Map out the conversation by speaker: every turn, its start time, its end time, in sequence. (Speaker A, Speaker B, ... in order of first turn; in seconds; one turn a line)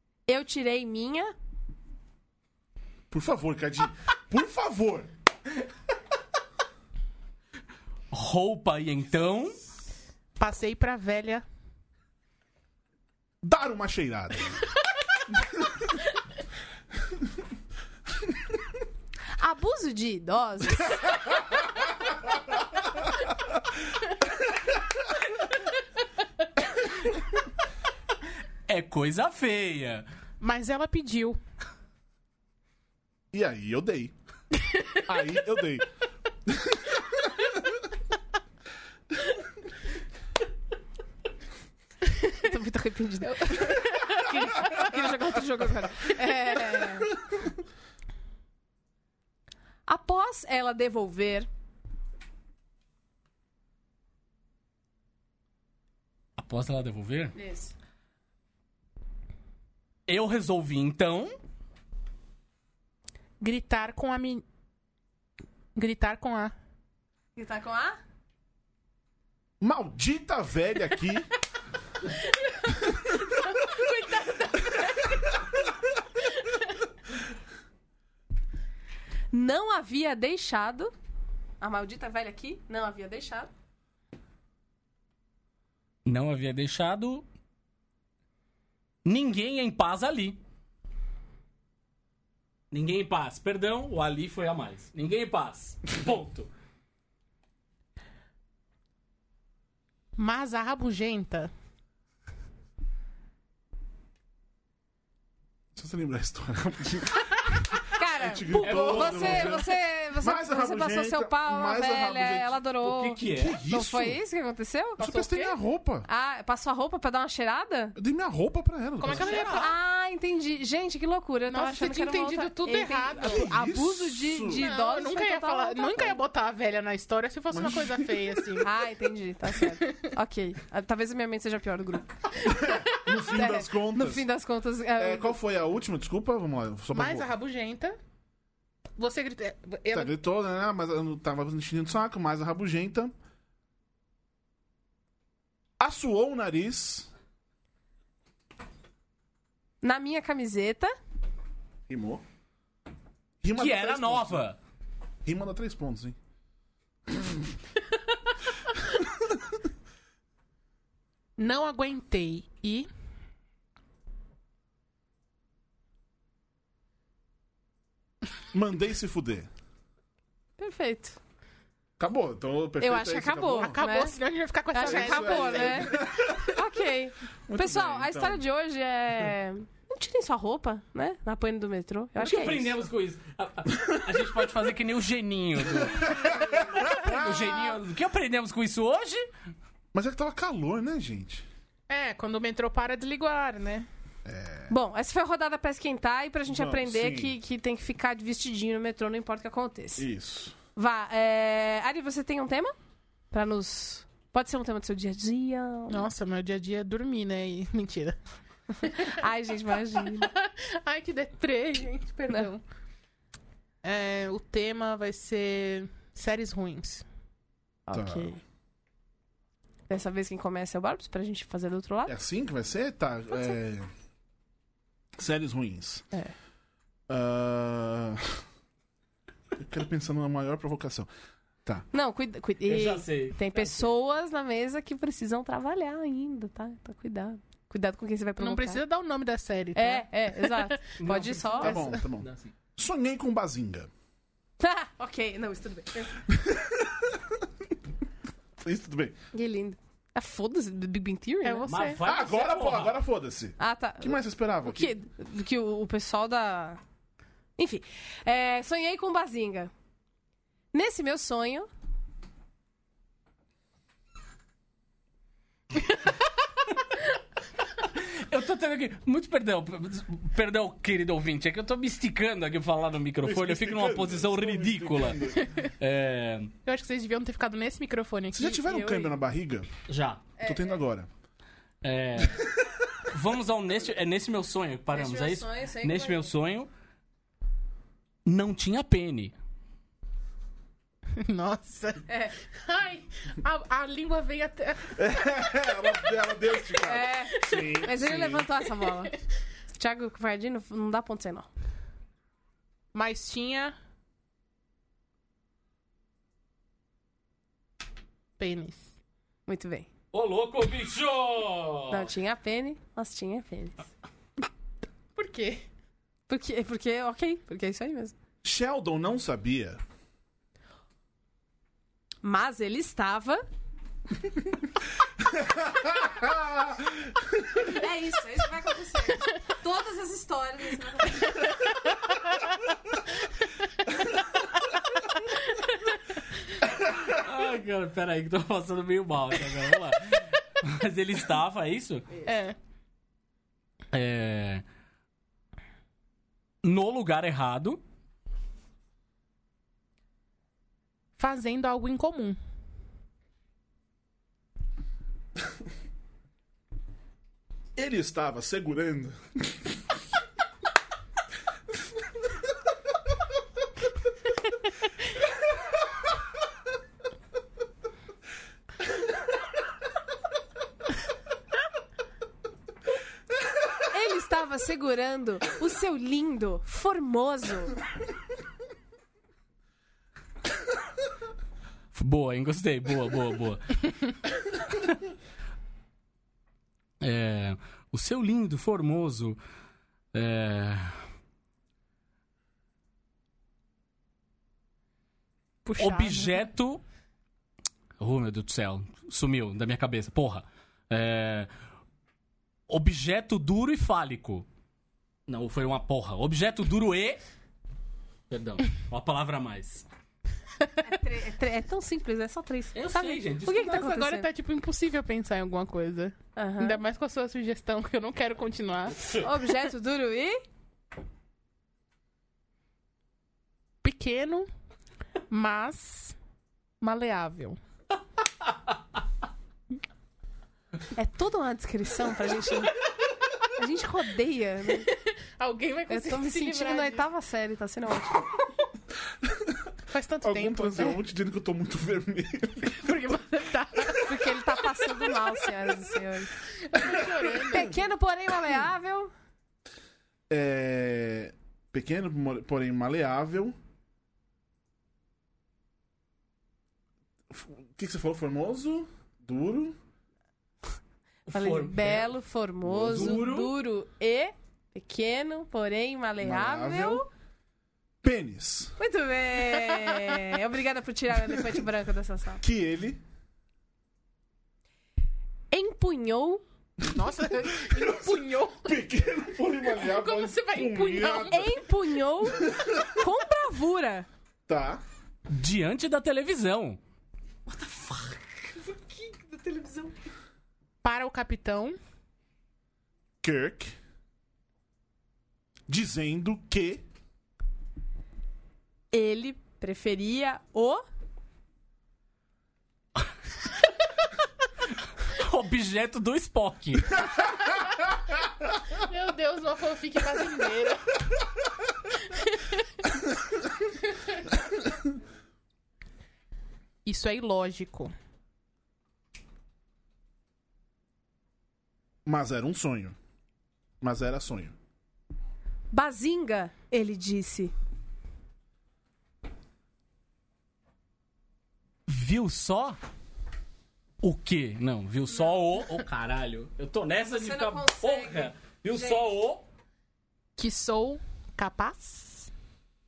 Speaker A: 0.3-1.3
Speaker B: 3.1-5.1
Speaker C: 8.1-9.6
Speaker D: 10.4-11.4
Speaker B: 13.4-14.6
Speaker B: 15.3-15.9
Speaker A: 19.4-21.1
Speaker C: 28.7-30.1
Speaker D: 30.4-31.4
Speaker B: 33.3-34.1
Speaker B: 35.0-35.9
Speaker B: 36.5-37.6
Speaker A: 42.4-47.2
Speaker D: 43.3-44.9
Speaker A: 49.9-51.5
Speaker C: 56.4-57.4
Speaker A: 57.4-57.7
Speaker C: 60.1-61.4
Speaker D: 63.4-64.4
Speaker D: 65.8-66.5
Speaker A: 67.4-68.0
Speaker B: 69.6-71.3
Speaker D: 73.6-74.8
Speaker A: 79.3-80.9
Speaker A: 81.6-83.5
Speaker C: 86.1-87.3
Speaker C: 89.0-90.4
Speaker C: 92.7-96.5
Speaker D: 100.2-101.5
Speaker B: 105.8-112.6
Speaker A: 107.9-115.0
Speaker C: 108.5-109.6
Speaker C: 112.8-113.6
Speaker B: 113.3-114.2
Speaker B: 115.0-116.1
Speaker D: 115.0-115.5
Speaker A: 116.1-118.0
Speaker B: 118.0-119.5
Speaker D: 119.0-119.7
Speaker A: 119.1-126.2
Speaker D: 121.5-123.5
Speaker B: 123.2-124.7
Speaker D: 124.5-128.7
Speaker B: 127.5-128.2
Speaker A: 128.6-132.4
Speaker D: 129.6-129.9
Speaker B: 132.4-134.3
Speaker A: 133.3-135.4
Speaker B: 135.0-137.3
Speaker D: 136.9-138.0
Speaker D: 139.0-140.2
Speaker B: 139.9-143.1
Speaker B: 145.8-147.1
Speaker A: 149.8-150.9
Speaker B: 151.9-152.2
Speaker B: 153.4-154.5
Speaker C: 153.6-154.6
Speaker B: 155.2-156.2
Speaker B: 157.1-157.5
Speaker B: 158.9-159.6
Speaker D: 161.4-162.9
Speaker B: 168.5-169.5
Speaker A: 170.6-171.2
Speaker B: 172.0-173.8
Speaker A: 172.8-174.2
Speaker D: 173.6-176.0
Speaker A: 174.7-182.8
Speaker B: 174.8-176.6
Speaker B: 177.5-178.4
Speaker C: 182.2-186.2
Speaker B: 185.8-187.8
Speaker C: 186.9-189.3
Speaker B: 189.9-191.5
Speaker D: 191.9-193.9
Speaker B: 194.2-194.7
Speaker A: 194.7-200.1
Speaker B: 196.5-197.4
Speaker B: 200.0-200.6
Speaker A: 200.8-202.8
Speaker A: 203.3-206.1
Speaker D: 205.9-208.2
Speaker D: 208.8-209.1
Speaker A: 208.9-210.3
Speaker D: 210.3-212.6
Speaker D: 213.8-217.1
Speaker A: 217.9-218.4
Speaker B: 217.9-218.3
Speaker A: 219.9-222.2
Speaker B: 222.1-223.9
Speaker B: 225.2-226.1
Speaker B: 227.1-228.4
Speaker B: 229.6-231.1
Speaker A: 231.9-238.8
Speaker C: 232.7-233.9
Speaker D: 238.4-240.8
Speaker A: 239.8-241.9
Speaker C: 241.0-242.5
Speaker B: 241.6-243.9
Speaker A: 244.6-246.2
Speaker B: 246.3-247.5
Speaker B: 248.6-249.2
Speaker A: 249.3-251.7
Speaker D: 251.4-252.0
Speaker C: 251.7-253.0
Speaker B: 252.0-254.9
Speaker A: 253.6-256.8
Speaker A: 257.6-259.7
Speaker A: 260.7-261.7
Speaker C: 267.9-276.5
Speaker B: 273.2-275.5
Speaker D: 276.6-278.6
Speaker B: 278.3-279.7
Speaker A: 278.7-279.1
Speaker C: 279.9-280.2
Speaker A: 280.4-280.8
Speaker B: 280.4-281.1
Speaker C: 281.8-282.5
Speaker C: 283.1-286.7
Speaker A: 284.9-286.3
Speaker C: 288.3-289.4
Speaker D: 291.2-294.9
Speaker A: 292.1-292.3
Speaker B: 294.9-298.5
Speaker A: 296.8-299.1
Speaker A: 299.8-301.5
Speaker D: 302.9-303.8
Speaker D: 308.4-308.9
Speaker A: 309.5-309.9
Speaker C: 310.1-312.1
Speaker A: 311.9-313.9
Speaker D: 315.2-315.7
Speaker A: 316.3-318.1
Speaker B: 318.4-319.8
Speaker A: 322.2-323.4
Speaker B: 325.2-327.5
Speaker A: 327.6-331.5
Speaker C: 337.0-342.1
Speaker D: 342.2-342.6
Speaker C: 343.9-344.6
Speaker C: 346.6-347.8
Speaker D: 351.2-352.4
Speaker B: 357.8-359.8
Speaker A: 373.9-377.8
Speaker C: 381.9-383.8
Speaker C: 387.0-389.4
Speaker C: 390.1-391.0
Speaker D: 395.6-396.4
Speaker C: 395.8-396.8
Speaker C: 398.0-401.5
Speaker C: 402.7-404.5
Speaker C: 405.3-407.2
Speaker C: 408.3-409.9
Speaker A: 410.8-414.3
Speaker C: 412.8-413.8
Speaker D: 413.5-419.2
Speaker A: 416.4-416.8
Speaker A: 419.1-420.4
Speaker D: 423.8-424.5
Speaker D: 425.3-426.2
Speaker D: 426.8-427.6
Speaker A: 430.9-432.7
Speaker A: 433.6-434.9
Speaker D: 435.4-437.0
Speaker A: 435.9-438.3
Speaker B: 439.2-439.6
Speaker D: 439.9-441.0
Speaker B: 440.2-442.9
Speaker D: 442.8-445.3
Speaker A: 444.0-446.3
Speaker D: 446.6-447.8
Speaker A: 447.5-449.1
Speaker B: 450.3-453.6
Speaker B: 457.3-459.8
Speaker C: 461.3-462.1
Speaker A: 461.3-467.1
Speaker B: 462.6-463.3
Speaker C: 462.8-463.5
Speaker B: 466.2-467.0
Speaker B: 468.0-468.8
Speaker A: 468.8-472.4
Speaker B: 472.4-473.0
Speaker A: 475.5-476.4
Speaker D: 476.9-478.6
Speaker B: 477.6-481.6
Speaker D: 479.8-481.6
Speaker A: 481.3-484.1
Speaker B: 482.5-482.8
Speaker B: 484.5-484.8
Speaker C: 485.3-486.8
Speaker A: 487.5-489.9
Speaker D: 490.8-491.8
Speaker B: 493.2-493.8
Speaker B: 495.7-496.8
Speaker A: 498.9-500.8
Speaker C: 505.1-507.0
Speaker D: 508.7-510.9
Speaker D: 516.9-517.9
Speaker B: 522.0-523.0
Speaker B: 523.8-524.6
Speaker A: 525.7-527.5
Speaker C: 531.9-532.8
Speaker C: 534.0-539.5
Speaker A: 537.1-539.1
Speaker D: 540.4-542.3